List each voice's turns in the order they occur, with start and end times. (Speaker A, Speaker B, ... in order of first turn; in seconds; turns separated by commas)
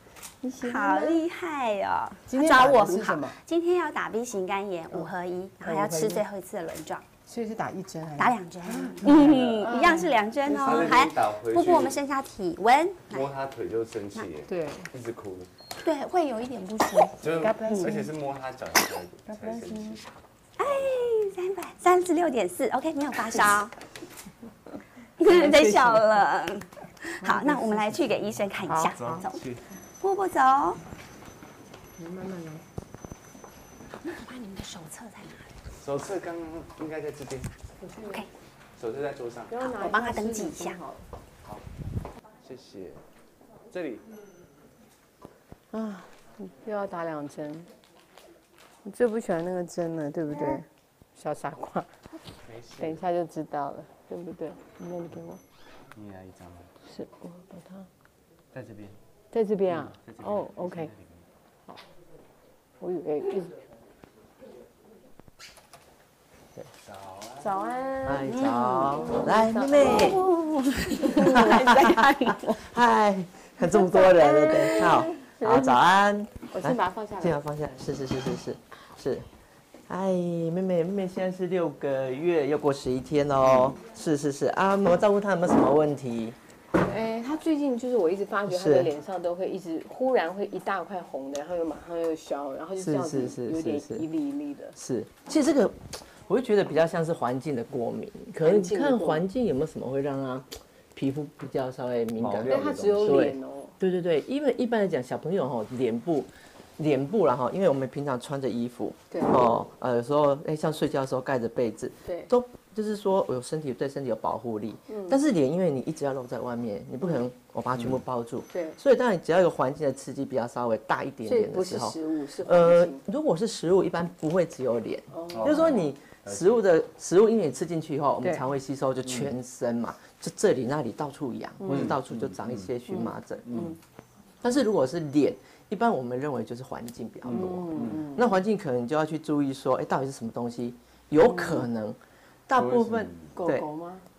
Speaker A: 0.4-1.2, Speaker B: 0.6-7.0, Speaker A: 2.3-3.4, Speaker A: 5.6-6.2, Speaker A: 7.2-11.0, Speaker B: 8.2-13.3, Speaker C: 10.5-12.0, Speaker C: 13.1-15.5, Speaker A: 14.5-14.9, Speaker B: 15.8-18.0, Speaker C: 17.2-20.0, Speaker A: 17.4-18.1, Speaker A: 19.3-20.0, Speaker B: 20.6-23.8, Speaker C: 20.6-21.1, Speaker B: 25.2-30.8, Speaker A: 25.2-26.1, Speaker A: 27.2-28.1, Speaker A: 28.6-29.2, Speaker C: 28.7-29.6, Speaker A: 32.0-32.6, Speaker B: 34.0-35.5, Speaker C: 35.8-37.5, Speaker A: 37.8-38.2, Speaker C: 38.8-39.6, Speaker A: 39.5-41.1, Speaker B: 39.6-40.8, Speaker C: 42.4-43.0, Speaker C: 43.7-44.1, Speaker A: 45.7-47.7, Speaker A: 48.8-52.0, Speaker C: 52.4-53.0, Speaker A: 52.8-55.4, Speaker C: 56.0-56.7, Speaker A: 56.8-57.9, Speaker C: 58.5-59.0, Speaker A: 59.3-60.9, Speaker C: 59.7-61.3, Speaker A: 62.8-63.6, Speaker C: 66.8-67.5, Speaker A: 67.4-70.1, Speaker D: 68.0-70.3, Speaker B: 68.3-69.1, Speaker B: 69.7-72.7, Speaker D: 71.1-79.3, Speaker A: 73.6-75.8, Speaker A: 76.5-77.4, Speaker D: 79.9-86.4, Speaker A: 86.8-94.8, Speaker D: 88.5-88.9, Speaker D: 92.8-94.1, Speaker D: 94.8-133.8, Speaker A: 98.4-99.2, Speaker C: 102.2-103.2, Speaker A: 102.4-103.8, Speaker A: 109.1-109.6, Speaker A: 112.0-112.3, Speaker A: 114.9-115.2, Speaker A: 118.5-118.8, Speaker A: 121.2-123.0, Speaker A: 125.1-125.9, Speaker C: 125.3-126.6, Speaker A: 128.2-128.5, Speaker C: 129.0-129.3, Speaker A: 131.6-132.0, Speaker C: 131.7-132.7, Speaker A: 132.9-133.7, Speaker C: 133.5-133.8, Speaker D: 134.4-143.7, Speaker C: 137.2-138.0, Speaker A: 137.3-138.4, Speaker A: 141.2-141.7, Speaker C: 142.6-143.4, Speaker A: 143.3-144.1